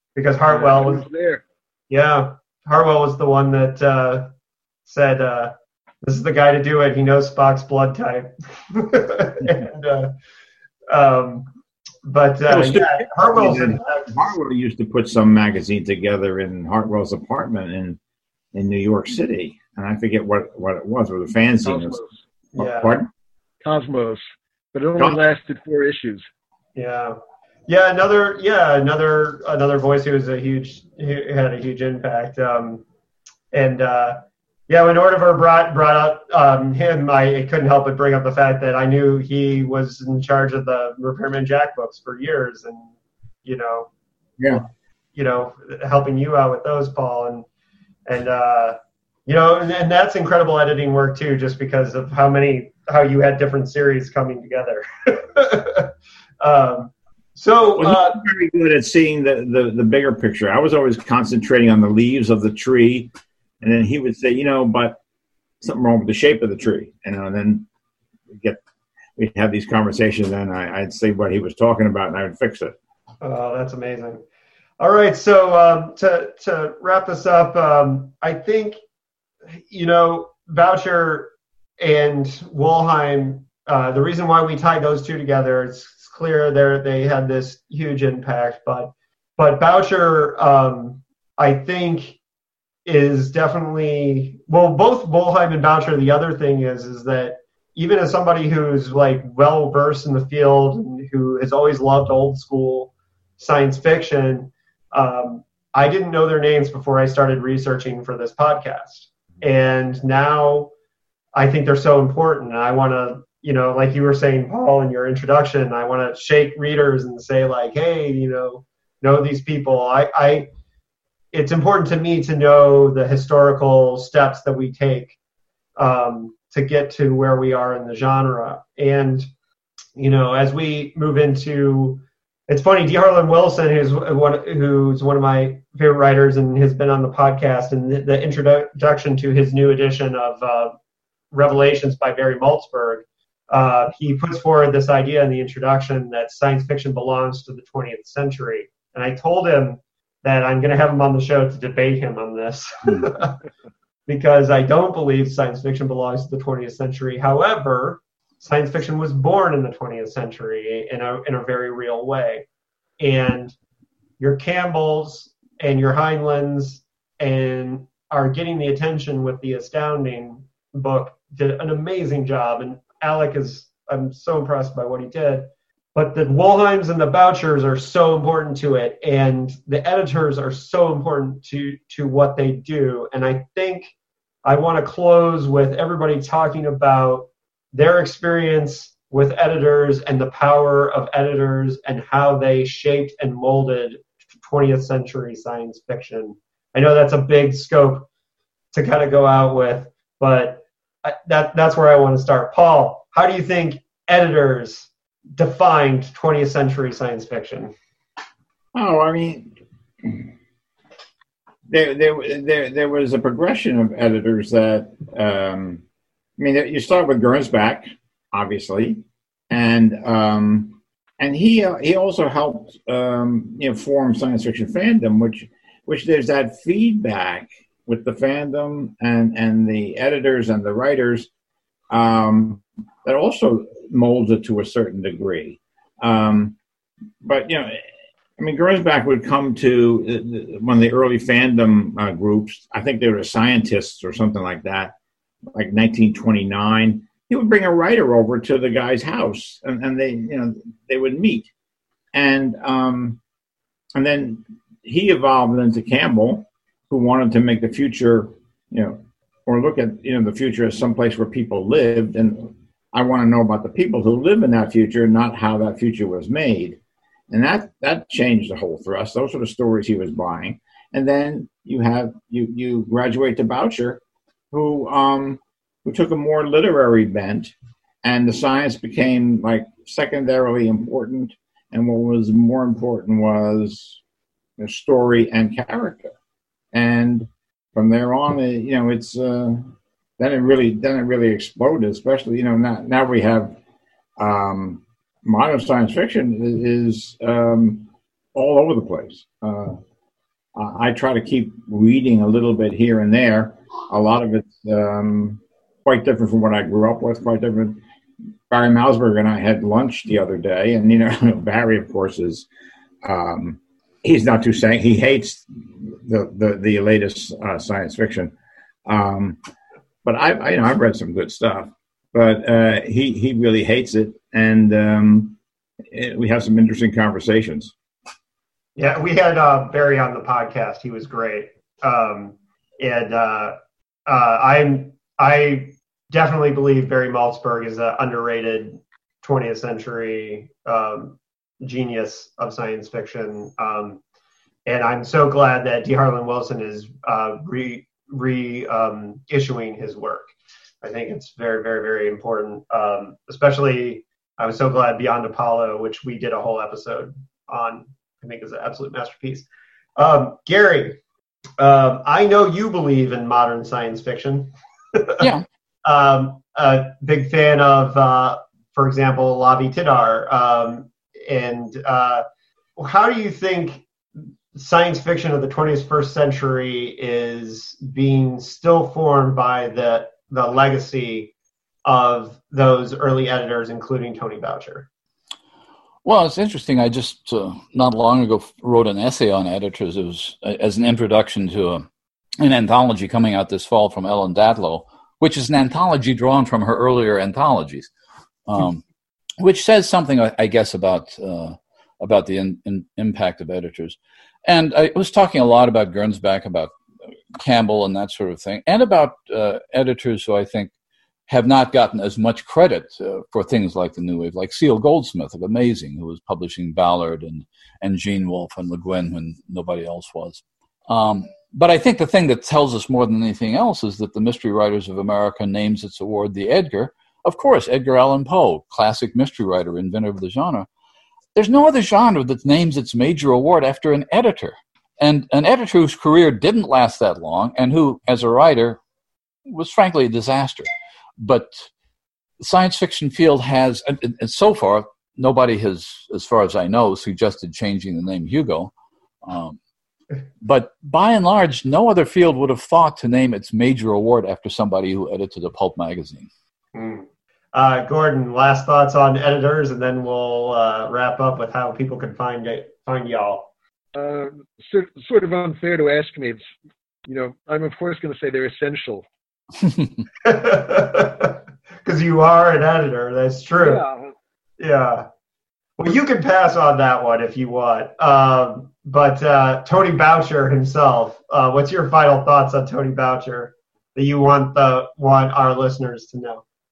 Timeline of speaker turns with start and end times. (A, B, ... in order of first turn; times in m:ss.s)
0:00.2-0:01.0 A
0:00.5-0:01.4 B
0:01.9-0:04.3 A
0:04.8-0:10.1 A
0:10.9-0:11.5 A
0:12.0-0:14.3 A
0:12.5-0:18.0 C
0:18.5-0:22.0 C
0:21.6-0:22.1 B
0:22.5-0:23.1 C
0:22.6-0:23.0 A
0:23.6-0:26.2 B
0:26.8-0:32.8 A
0:33.5-0:42.9 A
0:43.4-0:43.9 A
0:45.2-0:47.4 A
0:48.1-0:58.2 A
0:57.8-1:05.0 C
1:05.6-1:07.7 C
1:08.3-1:08.6 C
1:09.2-1:12.8 C
1:13.2-1:14.2 A
1:14.8-1:18.8 A
1:19.7-1:32.2 A
1:32.8-1:50.7 A
1:51.4-2:00.5 A
2:01.3-2:05.2 A
2:05.8-2:09.3 A
2:10.0-2:20.7 A
2:21.3-2:33.4 A
2:34.1-2:42.4 A
2:43.0-2:43.6 A
2:44.2-3:03.9 A
3:04.4-3:18.1 A
3:18.7-3:27.7 A
3:28.7-3:29.5 C
3:31.7-3:35.8 C
3:36.4-3:51.3 C
3:51.9-3:56.6 C
3:57.2-3:57.8 C
3:58.4-4:05.0 C
4:05.5-4:11.5 C
4:12.1-4:13.2 C
4:13.9-4:26.8 C
4:27.3-4:34.0 C
4:34.5-4:37.5 C
4:38.0-4:44.0 C
4:44.6-4:46.1 C
4:46.7-4:53.6 C
4:54.2-4:59.8 C
5:00.6-5:07.8 C
5:08.5-5:12.5 C
5:13.0-5:18.3 C
5:18.9-5:19.4 C
5:20.0-5:25.4 C
5:25.9-5:27.7 C
5:28.8-5:33.6 A
5:34.1-5:44.0 A
5:44.6-5:59.4 A
6:00.0-6:01.0 A
6:01.6-6:05.3 A
6:05.2-6:05.4 D
6:05.8-6:12.2 A
6:12.8-6:13.9 A
6:14.5-6:21.3 A
6:21.8-6:24.9 A
6:26.0-6:31.9 D
6:32.4-6:37.9 D
6:38.5-6:38.8 D
6:39.4-6:46.7 D
6:47.4-6:50.7 D
6:51.3-7:10.7 D
7:11.4-7:18.8 D
7:19.5-7:21.7 D
7:22.4-7:28.7 D
7:29.2-7:29.6 D
7:30.4-7:36.3 D
7:36.7-7:43.5 A
7:43.9-7:46.4 B
7:47.1-7:49.1 B
7:50.2-7:53.8 A
7:53.6-7:54.1 B
7:54.6-7:55.1 A
7:55.8-8:06.4 A